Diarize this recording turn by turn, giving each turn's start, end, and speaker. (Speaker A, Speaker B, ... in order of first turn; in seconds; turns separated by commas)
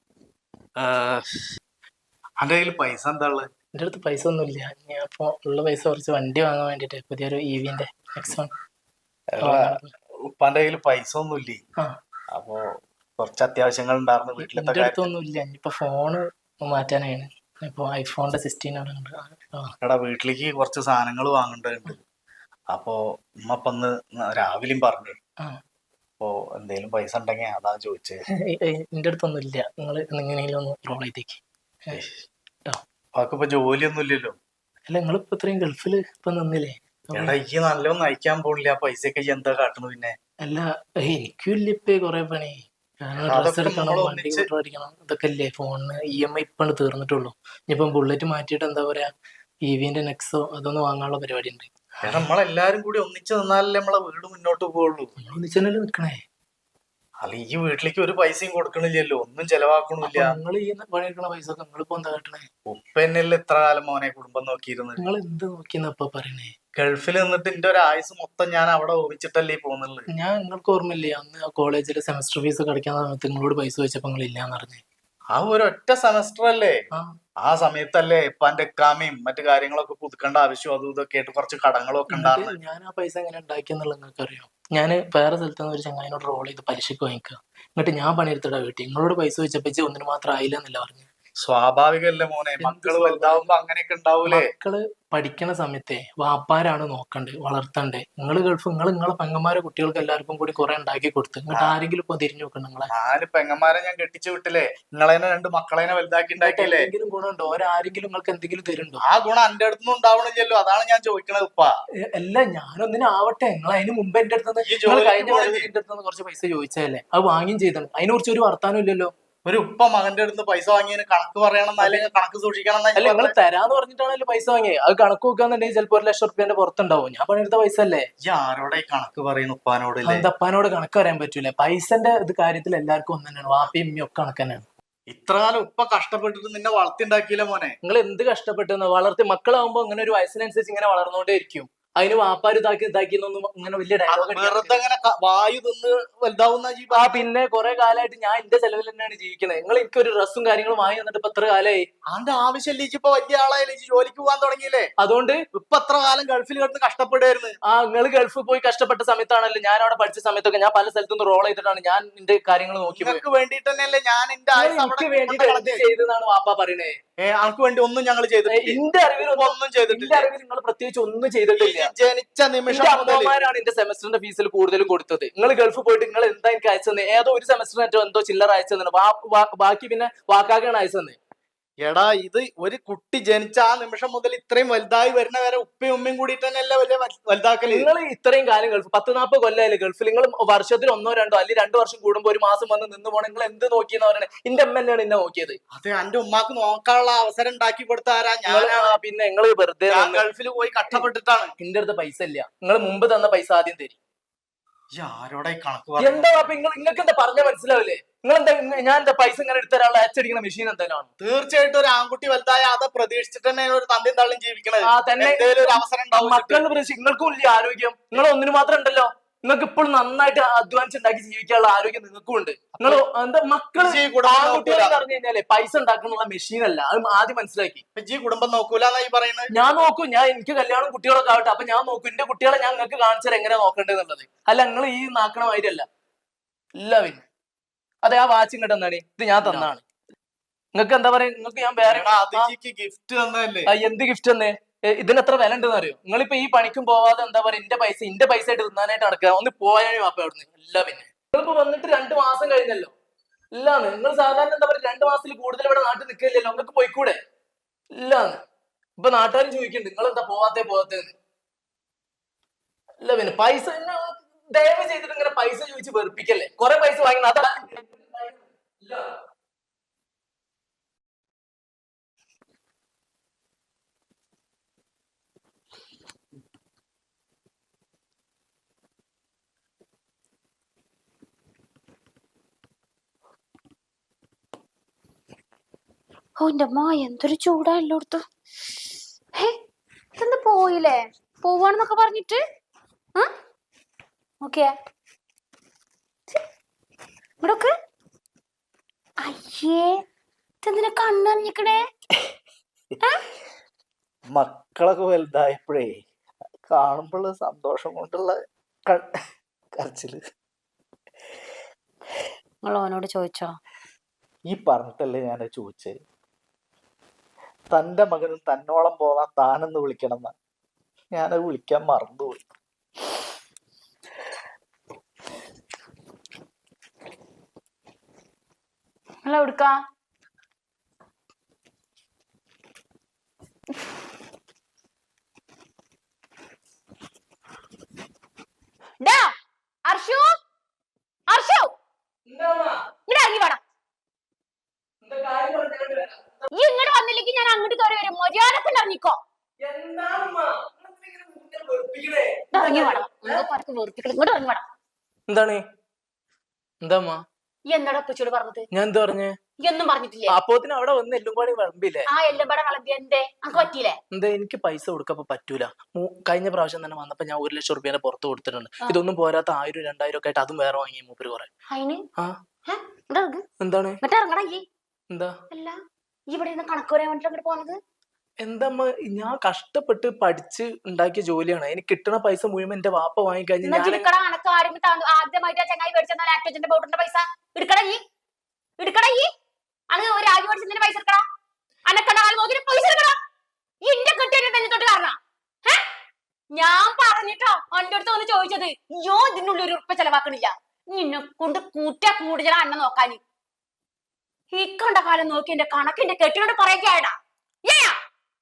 Speaker A: 0.8-1.3, Speaker A: 2.4-3.5, Speaker B: 3.8-8.5, Speaker A: 9.3-11.6, Speaker B: 9.4-9.9, Speaker A: 12.3-12.6, Speaker A: 13.2-15.1, Speaker B: 14.4-19.7, Speaker A: 19.8-22.0, Speaker A: 22.7-25.2, Speaker A: 26.2-28.2, Speaker B: 28.5-32.0, Speaker A: 31.9-32.2, Speaker A: 33.1-34.4, Speaker B: 34.9-37.4, Speaker A: 37.1-40.1, Speaker B: 40.4-49.1, Speaker A: 43.2-44.5, Speaker B: 49.7-52.3, Speaker A: 52.0-55.1, Speaker B: 55.2-56.2, Speaker A: 57.2-60.4, Speaker B: 60.0-62.5, Speaker A: 62.7-65.1, Speaker B: 65.0-66.5, Speaker A: 66.8-70.1, Speaker B: 70.1-74.8, Speaker A: 75.3-76.8, Speaker A: 77.4-82.6, Speaker B: 82.1-91.1, Speaker A: 91.4-94.5, Speaker B: 92.6-93.5, Speaker B: 94.2-102.9, Speaker A: 102.9-106.9, Speaker B: 106.4-109.0, Speaker A: 109.0-111.7, Speaker B: 112.2-119.1, Speaker A: 114.7-115.7, Speaker A: 119.5-123.3, Speaker B: 123.0-128.1, Speaker A: 128.2-130.3, Speaker B: 130.1-134.6, Speaker A: 135.1-137.8, Speaker B: 137.8-144.8, Speaker A: 144.1-147.3, Speaker B: 146.9-151.8, Speaker A: 152.1-154.9, Speaker B: 155.0-155.4, Speaker A: 155.5-157.6, Speaker B: 157.7-163.2, Speaker A: 162.9-165.9, Speaker B: 164.6-167.0, Speaker A: 167.2-170.3, Speaker B: 168.5-171.9, Speaker A: 171.6-173.3, Speaker B: 172.7-181.2, Speaker A: 181.8-187.9, Speaker B: 187.7-195.6, Speaker A: 195.7-199.0, Speaker B: 198.5-200.3, Speaker A: 199.9-201.5, Speaker B: 201.6-204.0, Speaker A: 204.9-206.5, Speaker B: 206.0-211.1, Speaker A: 211.2-216.7, Speaker B: 214.8-227.8, Speaker A: 223.8-225.0, Speaker A: 227.9-229.5, Speaker B: 229.5-235.9, Speaker B: 236.8-237.2, Speaker B: 238.0-239.8, Speaker A: 239.4-239.7, Speaker B: 240.8-242.5, Speaker A: 241.8-243.7, Speaker B: 243.7-252.9, Speaker B: 253.6-257.2, Speaker B: 258.0-258.4, Speaker B: 259.0-261.1, Speaker B: 263.0-269.1, Speaker C: 286.4-288.2, Speaker C: 290.2-292.4, Speaker C: 294.4-294.7, Speaker C: 297.4-297.7, Speaker C: 299.2-300.0, Speaker C: 300.6-301.8, Speaker A: 304.3-306.0, Speaker A: 306.7-309.1, Speaker A: 309.8-310.2, Speaker C: 312.6-313.6, Speaker A: 314.5-316.0, Speaker A: 317.7-320.3, Speaker A: 321.1-322.4, Speaker C: 329.2-329.8, Speaker C: 339.0-339.3, Speaker C: 339.9-340.3, Speaker C: 341.3-341.7, Speaker B: 342.3-342.8, Speaker C: 343.1-343.6, Speaker B: 345.0-346.5, Speaker C: 346.5-349.2, Speaker B: 349.6-353.4, Speaker C: 352.5-354.6, Speaker B: 355.3-355.6, Speaker B: 356.8-357.2, Speaker C: 357.7-358.7, Speaker B: 358.7-359.4, Speaker C: 359.6-360.4, Speaker B: 360.3-362.1, Speaker C: 362.1-364.0, Speaker B: 363.6-371.5, Speaker C: 371.7-372.0, Speaker C: 372.7-373.4, Speaker B: 373.6-374.0, Speaker C: 374.0-374.6, Speaker C: 375.5-375.8, Speaker C: 376.3-377.8, Speaker B: 378.4-384.1, Speaker C: 383.6-388.0, Speaker C: 388.8-389.3, Speaker C: 389.9-391.2, Speaker C: 391.9-393.1, Speaker C: 393.8-395.8, Speaker C: 396.5-403.2, Speaker C: 404.5-407.1, Speaker C: 407.6-408.0